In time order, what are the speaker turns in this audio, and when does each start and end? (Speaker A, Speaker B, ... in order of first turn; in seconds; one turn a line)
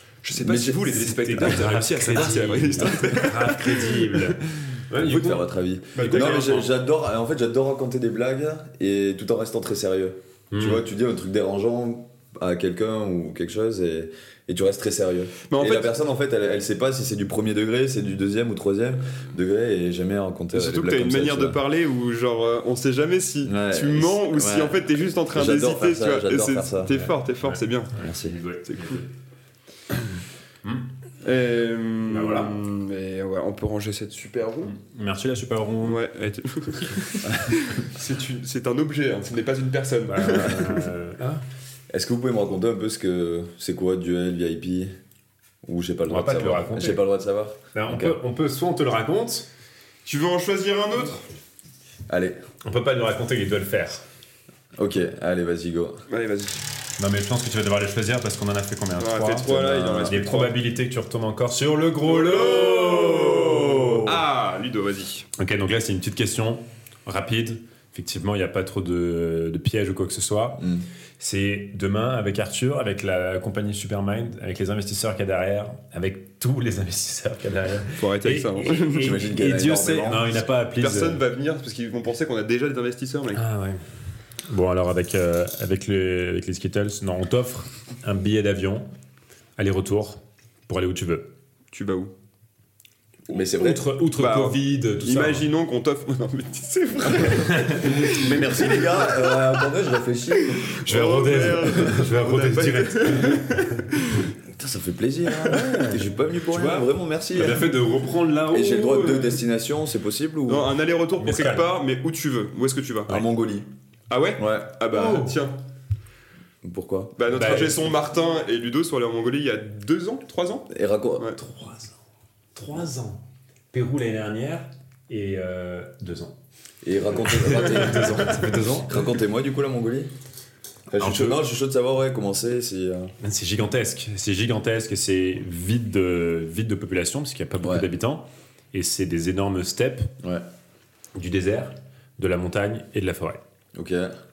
Speaker A: 0.2-4.2
Speaker B: 0.4-0.9
Speaker C: 0.9-6.7
Speaker B: 5.0-21.6
Speaker A: 6.0-6.7
Speaker C: 10.5-10.8
Speaker A: 15.5-15.9
Speaker A: 20.5-27.9
Speaker B: 23.4-26.9
Speaker C: 26.9-29.1
Speaker B: 28.0-28.4
Speaker A: 31.2-34.8
Speaker C: 32.1-32.5
Speaker C: 34.7-36.0
Speaker A: 35.8-40.9
Speaker C: 40.1-41.4
Speaker B: 41.9-44.9
Speaker B: 45.6-48.2
Speaker C: 46.1-47.0
Speaker C: 47.7-49.5
Speaker A: 50.0-51.2
Speaker B: 52.1-52.4
Speaker C: 52.6-54.0
Speaker B: 54.8-56.0
Speaker A: 56.1-56.6
Speaker C: 57.0-64.0
Speaker A: 59.0-60.6
Speaker B: 59.5-60.2
Speaker A: 62.0-65.3
Speaker B: 62.7-64.1
Speaker C: 65.4-70.6
Speaker B: 70.6-70.8
Speaker C: 71.2-81.2
Speaker A: 78.0-79.2
Speaker B: 79.0-80.4
Speaker A: 80.8-83.4
Speaker C: 83.3-83.8
Speaker C: 84.4-88.9
Speaker C: 89.6-91.3
Speaker A: 91.7-92.1
Speaker B: 93.3-93.8
Speaker C: 93.5-95.5
Speaker A: 94.2-98.2
Speaker C: 97.3-99.0
Speaker B: 98.1-100.7
Speaker A: 99.1-99.3
Speaker A: 100.3-104.3
Speaker C: 100.8-103.7
Speaker B: 104.5-107.7
Speaker C: 105.6-106.0
Speaker C: 106.5-109.4
Speaker B: 108.5-110.8
Speaker A: 110.5-113.2
Speaker C: 111.2-111.7
Speaker B: 113.1-113.7
Speaker A: 114.1-115.6
Speaker B: 114.4-114.7
Speaker C: 114.9-115.4
Speaker B: 116.6-117.7
Speaker A: 117.2-121.4
Speaker C: 117.3-117.9
Speaker B: 120.7-121.3
Speaker C: 121.4-122.0
Speaker C: 122.5-126.3
Speaker B: 126.8-130.1
Speaker C: 127.2-129.1
Speaker B: 130.9-133.1
Speaker C: 131.0-131.4
Speaker C: 133.2-140.1
Speaker B: 137.6-137.9
Speaker C: 141.2-143.4
Speaker B: 143.8-144.1